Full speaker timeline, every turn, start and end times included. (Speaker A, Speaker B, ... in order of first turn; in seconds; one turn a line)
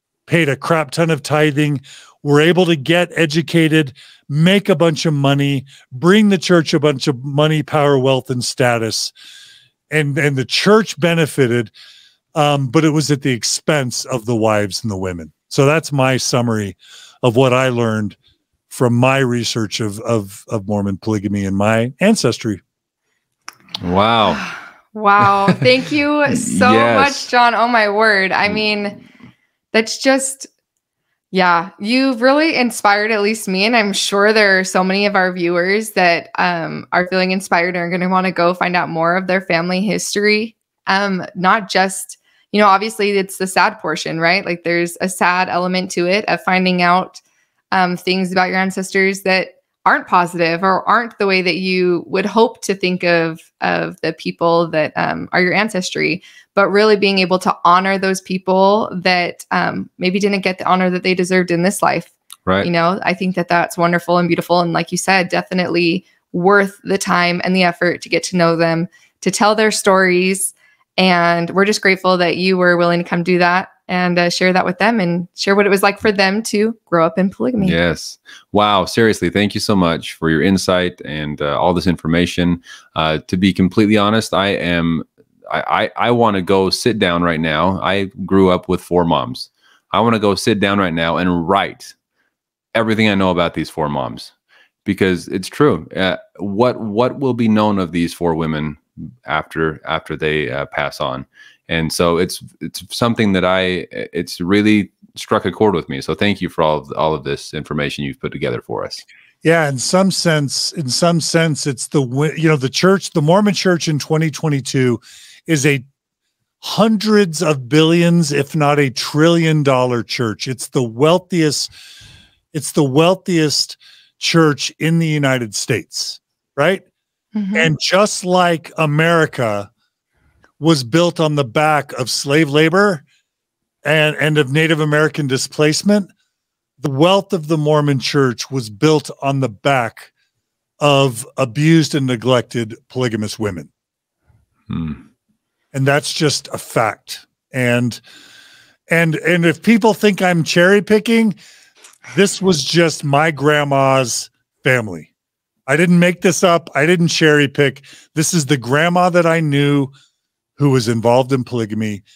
Speaker A: 0.3-9.1
Speaker A: 9.9-11.7
Speaker A: 12.3-18.2
Speaker A: 18.7-22.6
Speaker B: 23.8-24.4
Speaker C: 24.9-29.0
Speaker B: 26.3-27.3
Speaker C: 29.7-30.5
Speaker C: 31.3-47.2
Speaker C: 47.7-77.8
Speaker B: 77.6-91.9
Speaker B: 92.7-94.3
Speaker B: 94.8-109.0
Speaker A: 109.4-115.8
Speaker A: 116.6-121.7
Speaker A: 122.5-126.8
Speaker C: 127.3-127.7
Speaker A: 127.5-129.7
Speaker A: 130.6-133.0
Speaker A: 133.8-136.1
Speaker A: 136.8-140.1
Speaker A: 140.8-143.7
Speaker B: 144.7-145.0
Speaker A: 145.7-148.0
Speaker A: 148.9-151.4
Speaker A: 152.1-155.1
Speaker A: 155.7-159.9
Speaker A: 160.6-162.0